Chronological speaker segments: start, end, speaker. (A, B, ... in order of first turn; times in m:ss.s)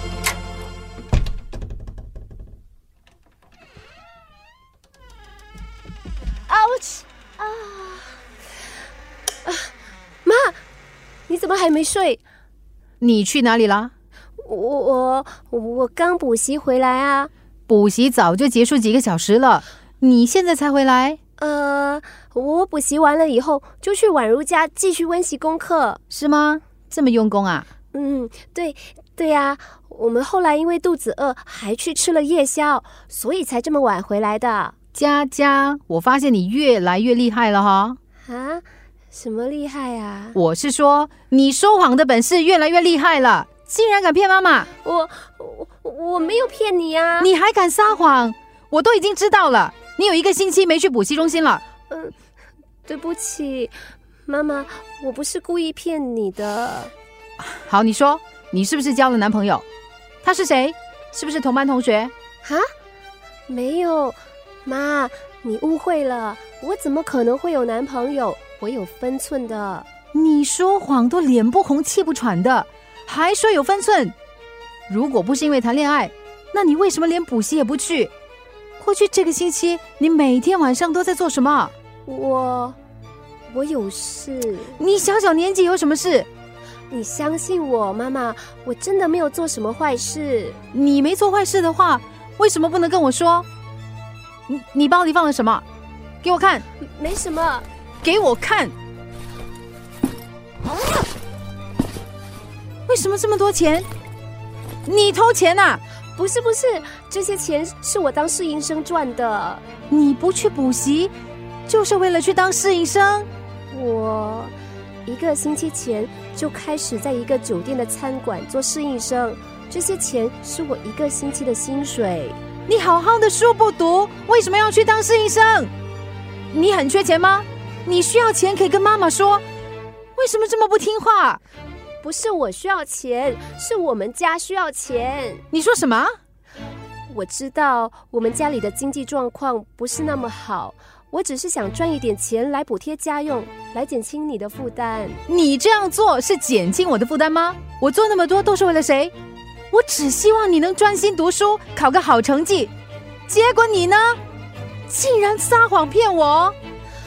0:06.5-0:08.2 A
0:10.2-0:10.6 A
0:11.3-0:12.2 A
0:13.0-0:13.9 B
0:14.4-0:17.3 A
0:17.7-0:21.2 B
0:21.4-0:26.0 A
0:26.1-0:27.6 B
0:27.9-0:34.7 A
0:34.9-0:38.0 B
0:38.2-0:40.4 A
0:40.3-0:44.7 B
0:44.8-0:47.3 A
0:47.2-0:51.6 B
0:51.9-0:52.1 A
0:52.8-0:56.9 A
0:57.4-0:59.6 B
1:00.2-1:02.1 B
1:03.5-1:09.9 A
1:10.1-1:14.1 B
1:14.9-1:18.1 B
1:18.8-1:21.7 B
1:22.0-1:22.8 A
1:23.5-1:24.8 A
1:24.8-1:26.3 B
1:26.9-1:30.6 A
1:30.7-1:33.5 B
1:34.5-1:35.6 B
1:36.2-1:36.6 B
1:36.8-1:37.6 A
1:38.0-1:38.7 B
1:42.9-1:43.9 B
1:44.8-1:45.8 B
1:46.2-1:49.6 A
1:49.9-1:51.1 B
1:51.7-1:53.3 B
1:53.7-2:02.5 A
2:02.7-2:05.7 B
2:06.5-2:09.4 B
2:10.2-2:11.4 B
2:12.0-2:15.4 A
2:15.5-2:16.1 B
2:17.1-2:25.2 A
2:25.3-2:29.1 B
2:29.7-2:32.7 B
2:33.3-2:34.2 B
2:34.9-2:36.6 B